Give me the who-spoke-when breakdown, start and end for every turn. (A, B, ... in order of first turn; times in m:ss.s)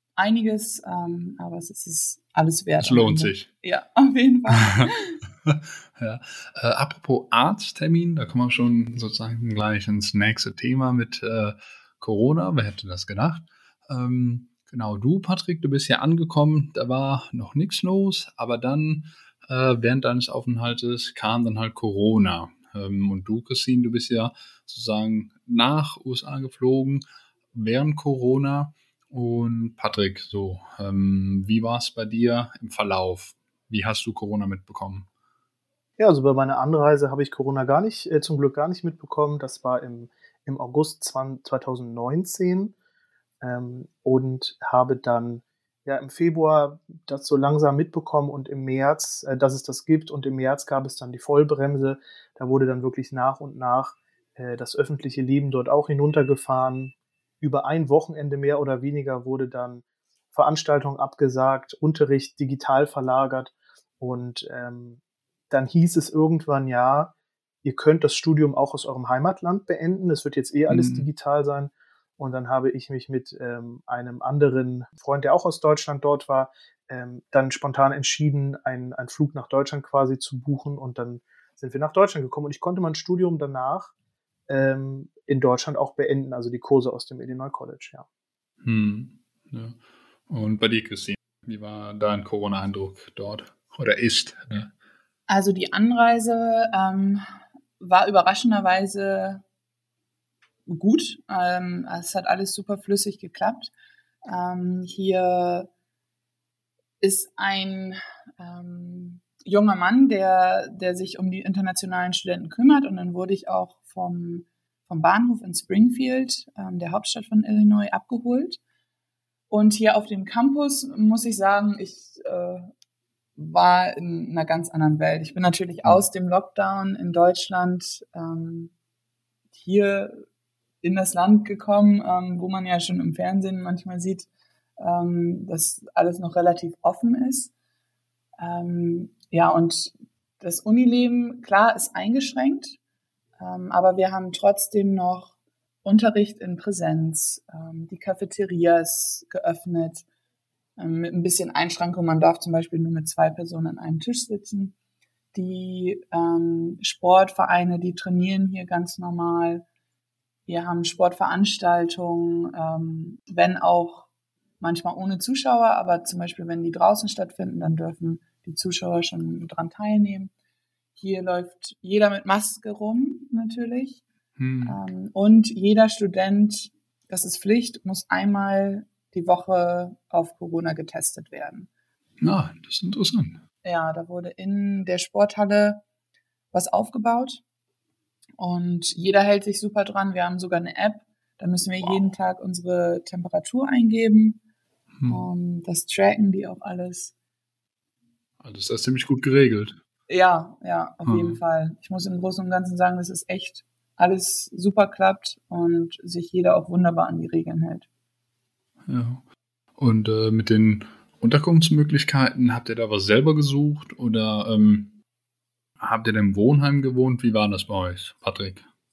0:00.2-0:05.2 A
0:02.8-0:03.5 B
0:04.6-0:04.9 B
0:05.5-0:35.1 B
0:36.0-0:42.8 C
0:43.4-1:05.0 C
1:05.5-1:23.9 C
1:10.7-1:11.1 B
1:24.5-1:28.1 C
1:28.6-1:29.8 B
1:30.3-1:34.7 B
1:35.3-1:37.3 A
1:37.8-1:39.4 A
1:40.7-1:43.7 A
1:44.3-1:45.7 A
1:47.0-1:58.6 A
1:59.5-2:02.7 A
2:03.4-2:08.7 A
2:09.6-2:10.2 A
2:10.8-2:14.3 A
2:14.8-2:17.5 A
2:18.4-2:22.8 A
2:23.4-2:30.0 A
2:30.8-2:34.8 A
2:35.3-2:39.6 A
2:40.5-2:44.1 A
2:44.6-2:50.3 A
2:51.0-2:54.0 A
2:54.4-2:54.8 B
2:54.6-3:01.7 A
3:02.2-3:03.4 B
3:03.6-3:05.8 A
3:06.5-3:07.4 A
3:08.4-3:14.4 A
3:15.0-3:15.3 B
3:15.1-3:17.1 A
3:18.4-3:19.8 B
3:20.1-3:27.9 A
3:21.0-3:21.4 B
3:28.9-3:29.2 B
3:29.8-3:35.0 B
3:35.8-3:38.7 B